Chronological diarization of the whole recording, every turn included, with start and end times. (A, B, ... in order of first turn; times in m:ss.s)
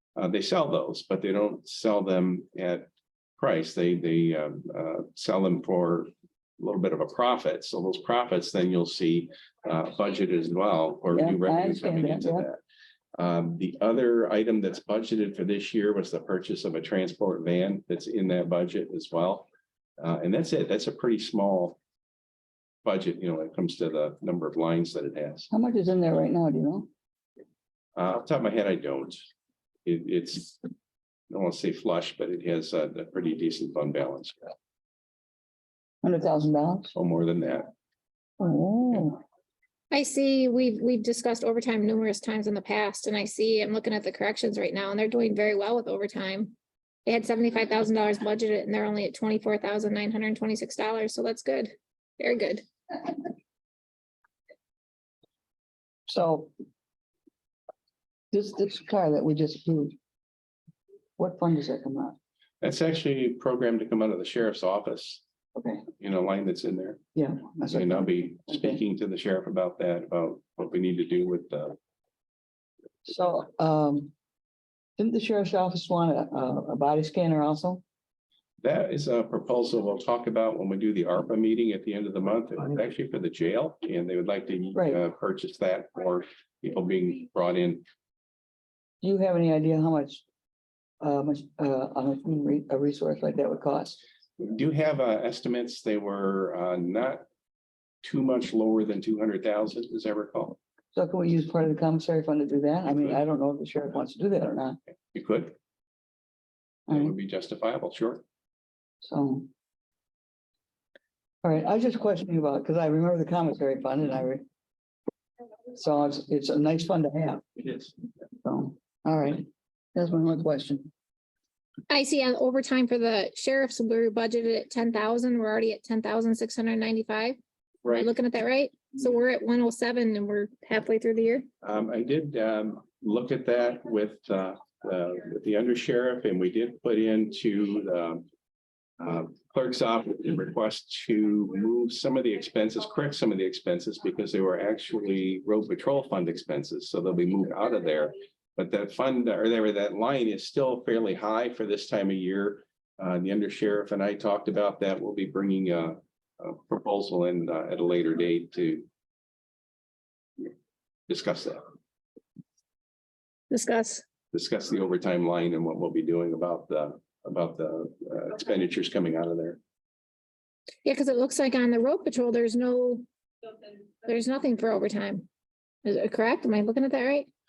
0:00.2-0:12.6 A
0:11.2-0:12.5 B
0:13.2-0:19.5 A
0:20.0-0:21.8 A
0:22.8-0:25.5 A
0:25.5-0:26.9 B
0:28.0-0:29.3 A
0:29.8-0:30.6 A
0:31.3-0:34.5 A
0:36.0-0:36.9 B
0:36.9-0:37.7 A
0:38.4-0:39.2 B
0:39.9-0:46.6 C
0:47.1-0:52.6 C
0:56.1-0:56.5 B
0:58.3-1:00.0 B
1:01.2-1:02.2 B
1:02.6-1:05.2 A
1:05.6-1:05.8 B
1:06.0-1:07.0 A
1:07.2-1:08.8 B
1:07.7-1:11.8 A
1:13.0-1:14.1 B
1:15.0-1:17.8 B
1:18.6-1:27.8 A
1:29.0-1:30.2 B
1:31.0-1:34.0 B
1:34.4-1:37.3 A
1:38.0-1:40.6 A
1:41.0-1:44.8 B
1:45.1-1:45.6 A
1:46.9-1:47.1 B
1:46.9-1:48.2 A
1:49.0-1:49.5 B
1:51.4-1:54.4 B
1:55.7-1:57.6 B
1:57.6-1:57.9 A
1:58.4-2:00.9 B
2:01.9-2:11.5 C
2:07.8-2:08.1 A
2:11.6-2:18.3 A
2:19.0-2:38.9 A
2:41.1-2:41.6 A
2:43.5-2:44.0 C
2:44.3-2:49.6 A
2:50.8-2:53.1 C
2:54.0-2:55.3 C
2:55.8-2:57.3 C